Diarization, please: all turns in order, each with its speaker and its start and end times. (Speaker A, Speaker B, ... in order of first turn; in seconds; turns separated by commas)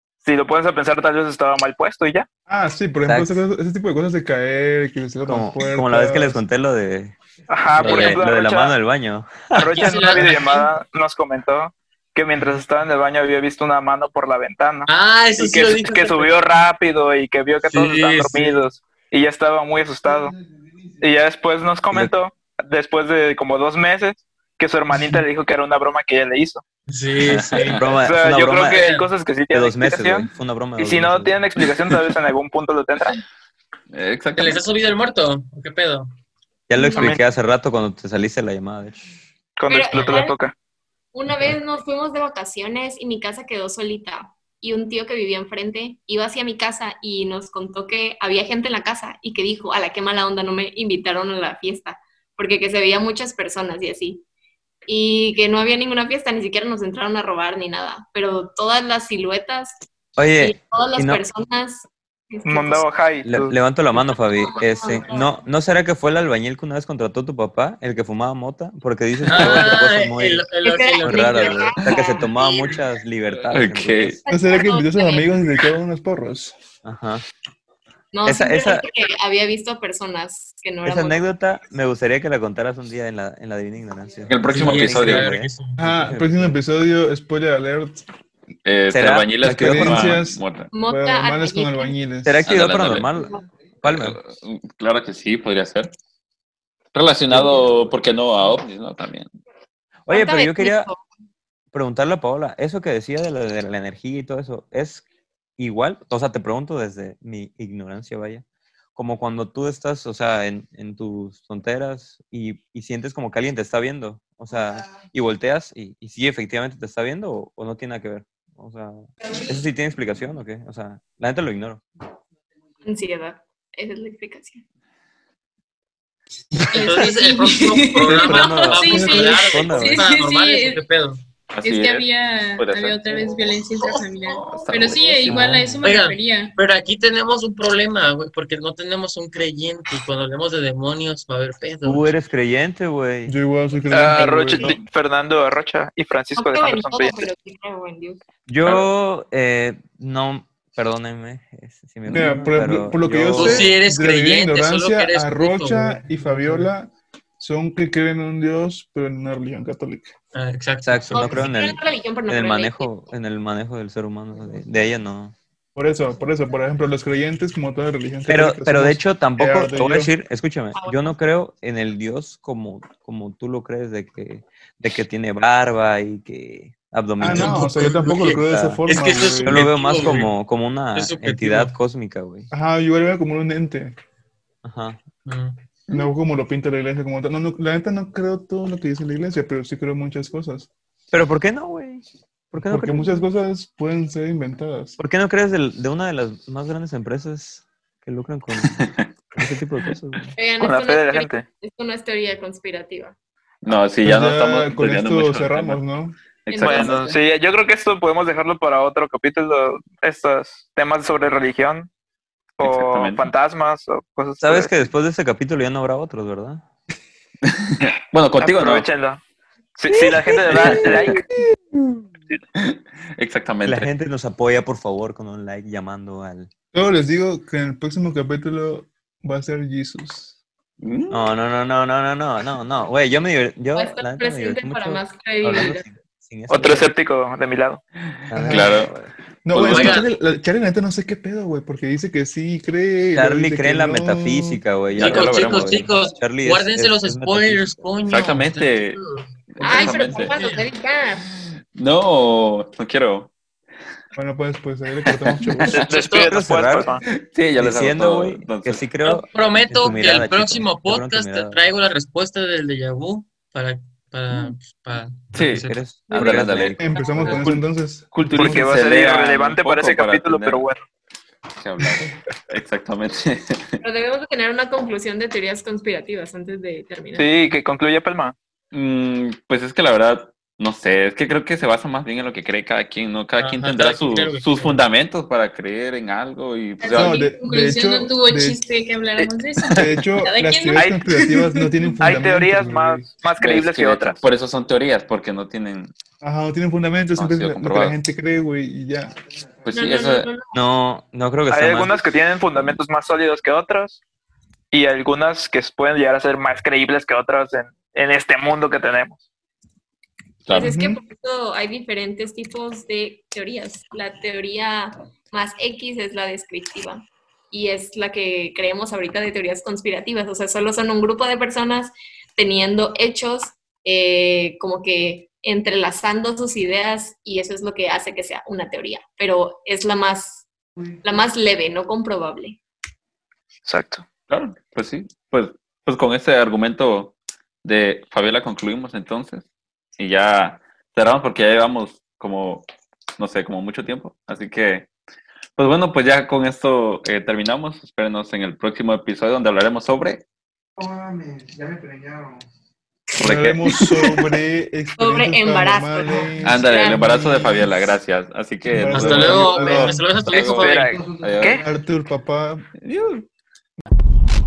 Speaker A: 0.2-2.3, Speaker B: 2.5-6.4, Speaker C: 3.0-3.4, Speaker C: 5.2-7.2, Speaker A: 7.5-8.8, Speaker D: 7.8-8.2, Speaker C: 7.8-9.5, Speaker A: 9.5-20.4, Speaker D: 9.6-10.7, Speaker D: 14.9-16.4, Speaker D: 17.7-18.7, Speaker A: 21.0-26.6, Speaker D: 24.9-25.2, Speaker D: 26.9-27.9, Speaker E: 27.2-27.8, Speaker C: 27.3-28.8, Speaker A: 27.9-30.3, Speaker D: 28.6-29.1, Speaker C: 29.5-31.4, Speaker A: 30.8-33.2, Speaker E: 33.9-34.6, Speaker D: 34.3-36.1, Speaker C: 36.7-39.0, Speaker F: 36.8-37.1, Speaker A: 36.9-37.2, Speaker A: 39.6-40.5, Speaker F: 39.7-40.4, Speaker D: 39.9-40.2, Speaker F: 41.1-54.2, Speaker F: 54.9-59.8, Speaker C: 60.2-61.2, Speaker F: 60.4-62.9, Speaker A: 62.5-63.5, Speaker C: 63.3-70.4, Speaker F: 64.3-65.3, Speaker D: 69.2-71.7, Speaker F: 70.6-72.3, Speaker C: 71.0-74.2, Speaker D: 72.3-72.8, Speaker E: 73.4-74.2, Speaker F: 74.2-75.3, Speaker B: 74.3-76.5, Speaker C: 76.8-77.2, Speaker F: 78.1-81.3, Speaker C: 78.2-78.9, Speaker C: 80.8-86.6, Speaker E: 84.3-85.3, Speaker D: 84.5-86.0, Speaker B: 85.8-88.0, Speaker E: 88.6-90.7, Speaker C: 88.9-90.2, Speaker B: 89.4-92.4, Speaker F: 90.7-92.0, Speaker C: 92.2-94.2, Speaker E: 92.4-93.1, Speaker E: 93.8-95.9, Speaker E: 96.9-99.3, Speaker C: 97.3-97.7, Speaker C: 100.0-100.9, Speaker F: 100.1-101.0, Speaker C: 101.7-105.0, Speaker C: 105.6-108.4, Speaker C: 109.0-121.8, Speaker F: 122.8-124.6, Speaker G: 126.7-130.8, Speaker D: 126.7-131.2, Speaker C: 128.0-130.1, Speaker E: 131.5-135.5, Speaker G: 131.6-136.5, Speaker C: 135.3-135.8, Speaker D: 135.8-142.1, Speaker C: 141.8-143.3, Speaker B: 143.3-144.8, Speaker A: 143.9-147.3, Speaker F: 146.3-148.2, Speaker C: 148.5-153.7, Speaker E: 148.6-148.9, Speaker B: 152.1-160.1, Speaker D: 153.3-156.7, Speaker D: 160.3-161.5, Speaker C: 160.8-165.3, Speaker F: 161.1-162.9, Speaker B: 165.7-170.1, Speaker C: 168.3-178.8, Speaker F: 170.7-171.1, Speaker B: 177.2-180.1, Speaker D: 177.2-180.3, Speaker C: 179.4-182.5, Speaker D: 180.9-181.7, Speaker B: 182.5-183.9, Speaker C: 184.6-185.0, Speaker D: 185.2-185.6, Speaker B: 185.9-190.7, Speaker C: 191.1-193.2, Speaker B: 192.7-195.0, Speaker C: 195.0-200.3, Speaker E: 198.7-199.1, Speaker F: 200.4-203.2, Speaker A: 200.6-201.4, Speaker E: 203.6-205.8, Speaker B: 203.7-206.2, Speaker E: 206.4-207.0, Speaker F: 206.5-207.2, Speaker A: 206.6-211.9, Speaker A: 212.6-214.7, Speaker E: 212.6-213.3, Speaker C: 214.4-216.6, Speaker E: 217.4-218.9, Speaker A: 218.4-219.2, Speaker A: 219.8-221.2, Speaker C: 219.9-222.0, Speaker E: 222.6-223.9, Speaker C: 223.7-226.5, Speaker B: 226.7-230.3, Speaker E: 230.8-231.3, Speaker C: 231.1-236.9, Speaker F: 233.7-235.8, Speaker A: 236.5-237.8, Speaker C: 238.3-239.1, Speaker B: 238.3-238.7, Speaker E: 238.4-238.9, Speaker B: 239.4-244.6, Speaker E: 239.5-240.0, Speaker D: 239.5-240.1, Speaker C: 243.1-247.8, Speaker E: 244.9-245.9, Speaker D: 245.0-250.7, Speaker E: 248.1-249.0, Speaker E: 249.5-250.4, Speaker F: 249.6-251.3, Speaker E: 251.7-253.3, Speaker B: 254.1-255.8, Speaker E: 255.0-255.8, Speaker A: 255.7-257.0, Speaker D: 255.8-256.7, Speaker C: 256.2-256.9, Speaker E: 257.1-258.8, Speaker C: 257.6-261.6, Speaker D: 259.0-267.5, Speaker E: 265.3-267.6, Speaker C: 265.6-267.4, Speaker B: 266.8-268.7, Speaker E: 268.1-270.6, Speaker A: 268.3-270.8, Speaker E: 271.6-273.8, Speaker F: 273.8-277.3, Speaker A: 277.1-278.3, Speaker E: 278.7-287.2, Speaker D: 283.4-284.8, Speaker G: 286.8-292.0, Speaker B: 286.9-288.6, Speaker B: 289.7-293.1, Speaker A: 292.0-294.2, Speaker E: 293.4-295.9, Speaker B: 296.2-299.1, Speaker E: 297.1-298.0, Speaker E: 299.6-300.3, Speaker F: 299.7-300.6, Speaker C: 300.5-301.9, Speaker A: 301.5-304.0, Speaker A: 304.7-309.2, Speaker E: 310.5-310.7, Speaker F: 310.5-330.5, Speaker B: 310.5-311.0, Speaker F: 331.0-332.6, Speaker A: 333.6-334.0, Speaker E: 334.3-342.6, Speaker E: 343.2-344.9, Speaker E: 345.6-350.2, Speaker E: 353.2-354.4, Speaker B: 353.2-357.7, Speaker F: 355.0-357.5, Speaker E: 356.4-361.6, Speaker B: 358.7-360.1, Speaker D: 358.9-361.0, Speaker A: 360.5-361.6, Speaker B: 361.6-362.7, Speaker E: 362.8-363.2